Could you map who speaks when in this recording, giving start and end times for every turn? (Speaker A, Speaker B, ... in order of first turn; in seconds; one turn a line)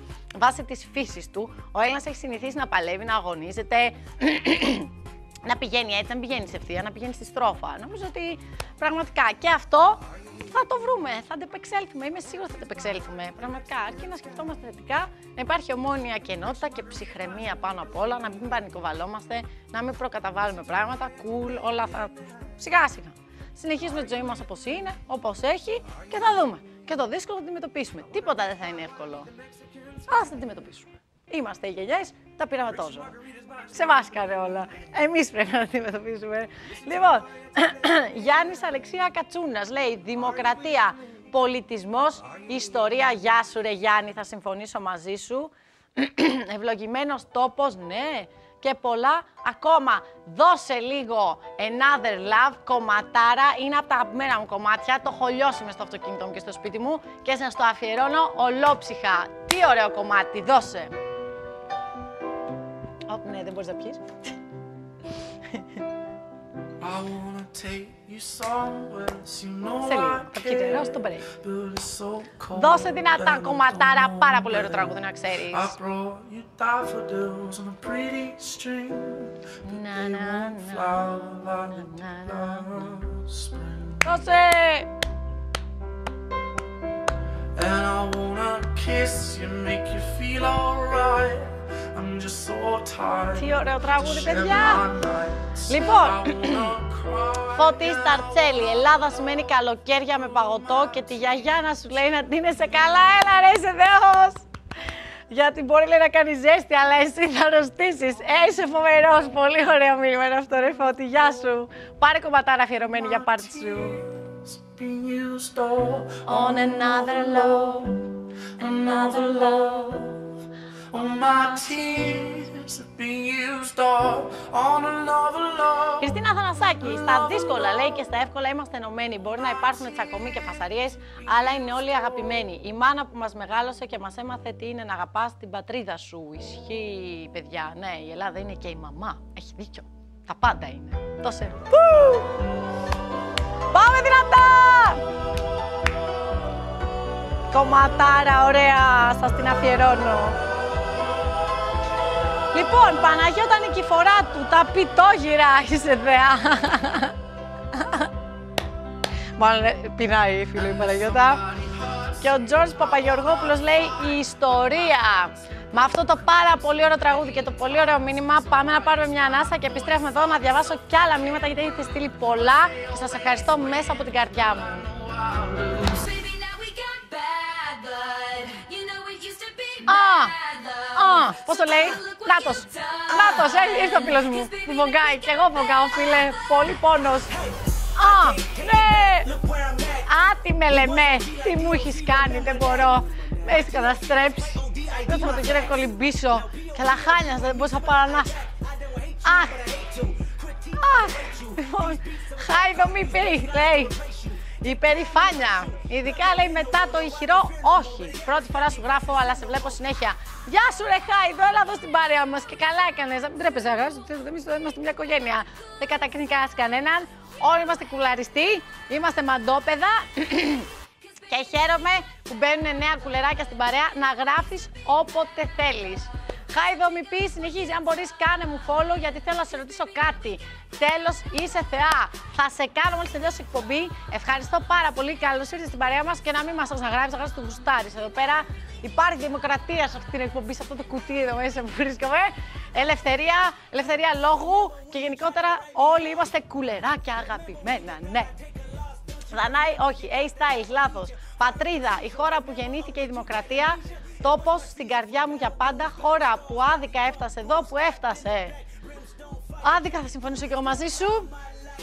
Speaker A: 0.3-4.9
Speaker A: 5.4-29.3
Speaker A: 30.1-60.9
Speaker A: 63.1-64.0
Speaker B: 66.8-84.2
Speaker A: 69.8-71.3
Speaker A: 72.5-75.8
Speaker A: 79.6-81.1
Speaker A: 81.8-82.9
Speaker A: 84.0-84.9
Speaker B: 87.5-98.8
Speaker A: 93.3-94.8
Speaker A: 95.7-96.7
Speaker A: 97.5-104.4
Speaker A: 105.3-114.0
Speaker B: 113.1-118.0
Speaker A: 116.2-118.0
Speaker B: 118.6-120.2
Speaker A: 118.6-120.1
Speaker B: 120.9-126.2
Speaker A: 126.0-142.4
Speaker A: 143.7-145.0
Speaker A: 147.5-150.4
Speaker A: 152.5-157.1
Speaker A: 157.7-158.1
Speaker A: 159.4-161.4
Speaker B: 160.9-162.1
Speaker A: 162.2-174.9
Speaker B: 174.9-175.9
Speaker C: 175.8-186.3
Speaker A: 179.8-180.3
Speaker A: 180.9-189.3
Speaker A: 190.0-198.4
Speaker A: 199.2-200.0
Speaker A: 200.7-204.0
Speaker A: 204.6-220.7
Speaker A: 221.3-248.3
Speaker A: 249.3-258.6
Speaker A: 259.6-261.3